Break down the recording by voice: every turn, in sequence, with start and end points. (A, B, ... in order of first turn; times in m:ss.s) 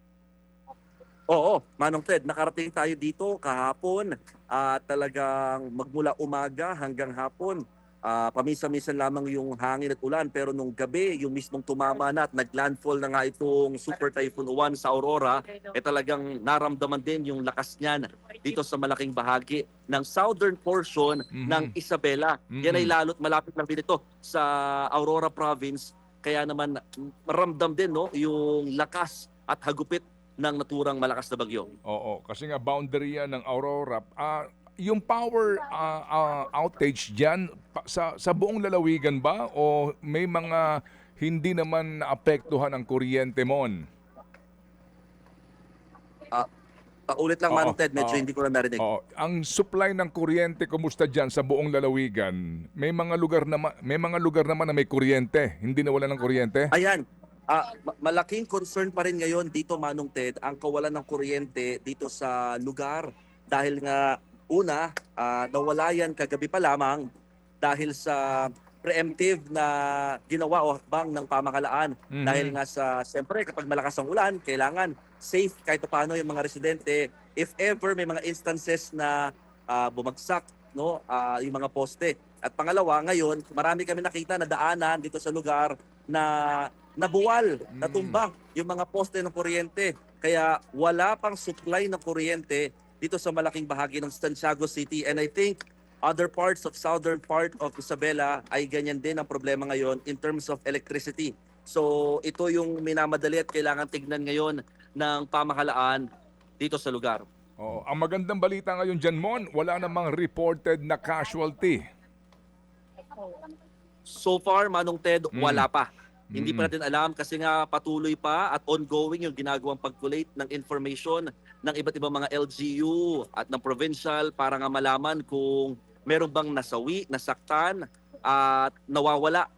0:01.3-0:31.7 A
0:21.3-0:21.7 B
0:22.5-0:22.9 B
0:31.8-0:43.8 B
0:47.1-0:48.8 A
0:47.5-0:48.2 B
0:48.8-0:56.7 B
0:56.7-1:07.0 A
1:07.6-1:19.2 A
1:12.1-1:12.6 B
1:19.7-1:46.0 A
1:27.8-1:28.2 B
1:46.6-1:47.2 A
1:47.6-1:51.8 B
1:54.1-2:09.4 A
1:55.3-1:55.7 B
1:56.3-1:56.7 B